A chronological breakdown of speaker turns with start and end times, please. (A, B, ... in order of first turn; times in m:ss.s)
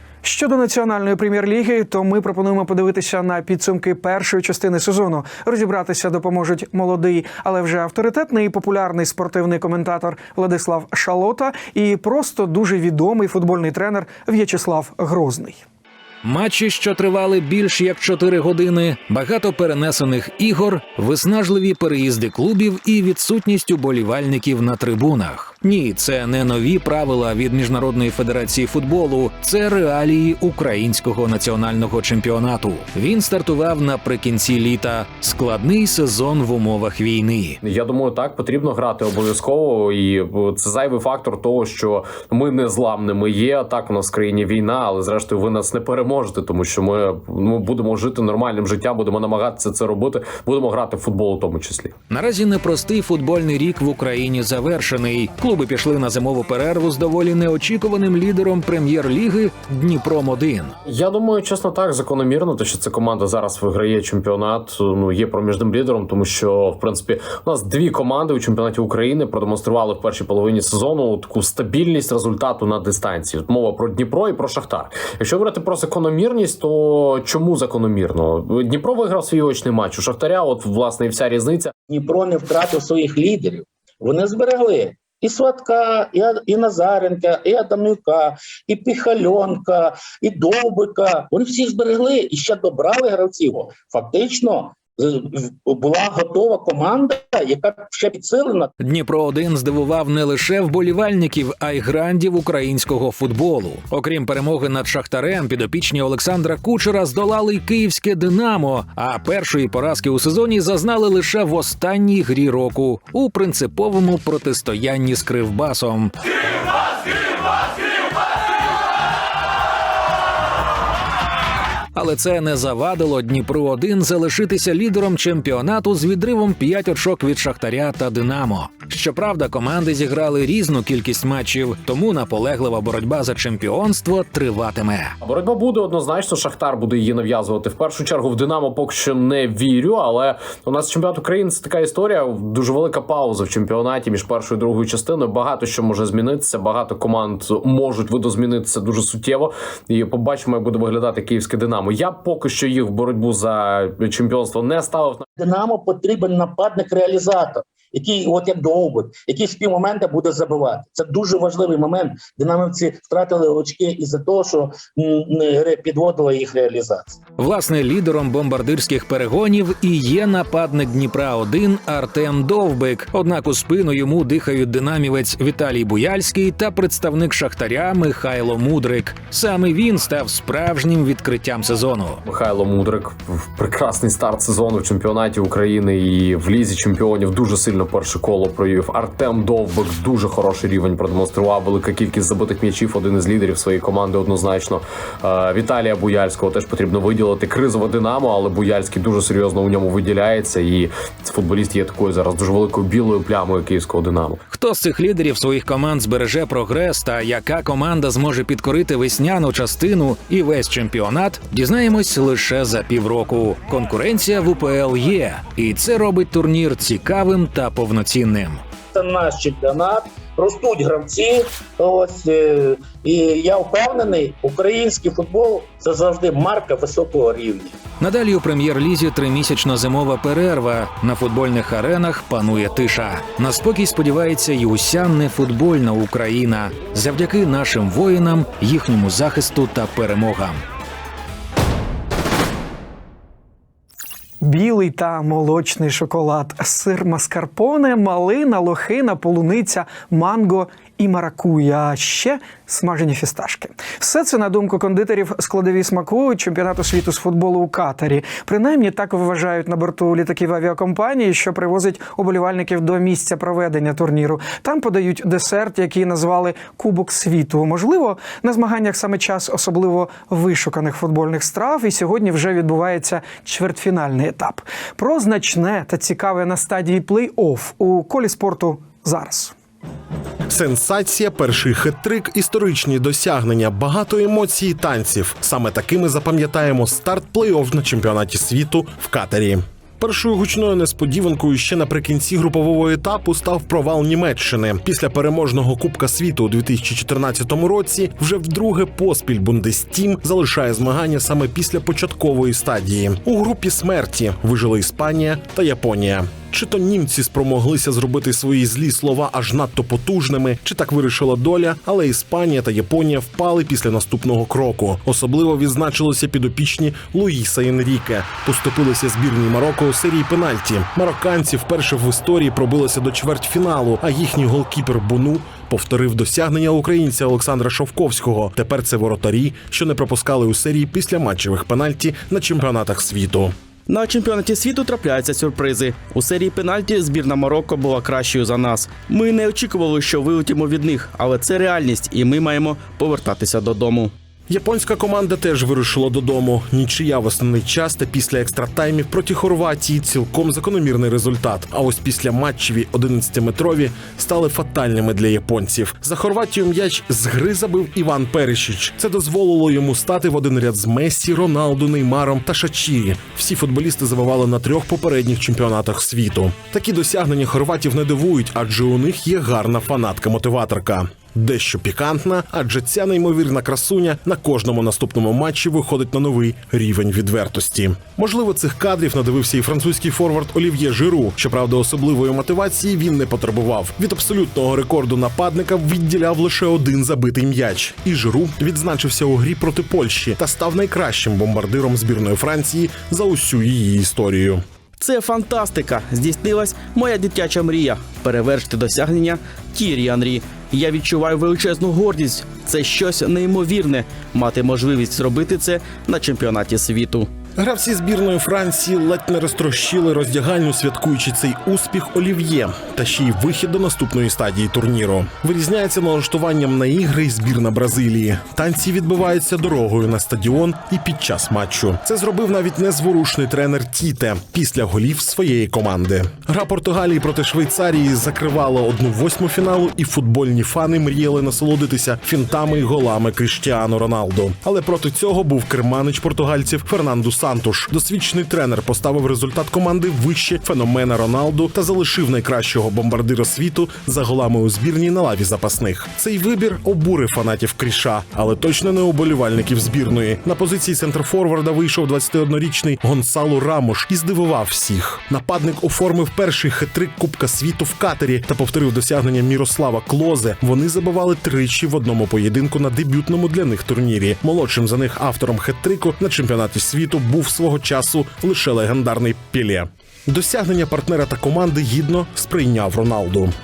0:00.2-0:15.6 A
0:16.2-0:37.6 B
0:37.6-0:51.9 C
0:52.1-1:00.8 B
1:00.9-1:21.7 C
1:21.9-1:38.7 D
1:38.8-1:56.1 B
2:01.9-2:15.2 B
2:15.2-2:35.2 C
2:35.4-2:47.2 D
2:47.4-3:02.2 B
3:02.3-3:24.4 C
3:24.5-3:38.6 B
3:38.9-3:47.8 D
3:48.0-4:00.6 B
4:04.4-4:39.6 A
4:40.5-5:33.6 E
5:33.9-5:44.1 F
5:44.5-6:34.6 E
6:35.0-6:47.3 F
6:47.6-7:53.6 E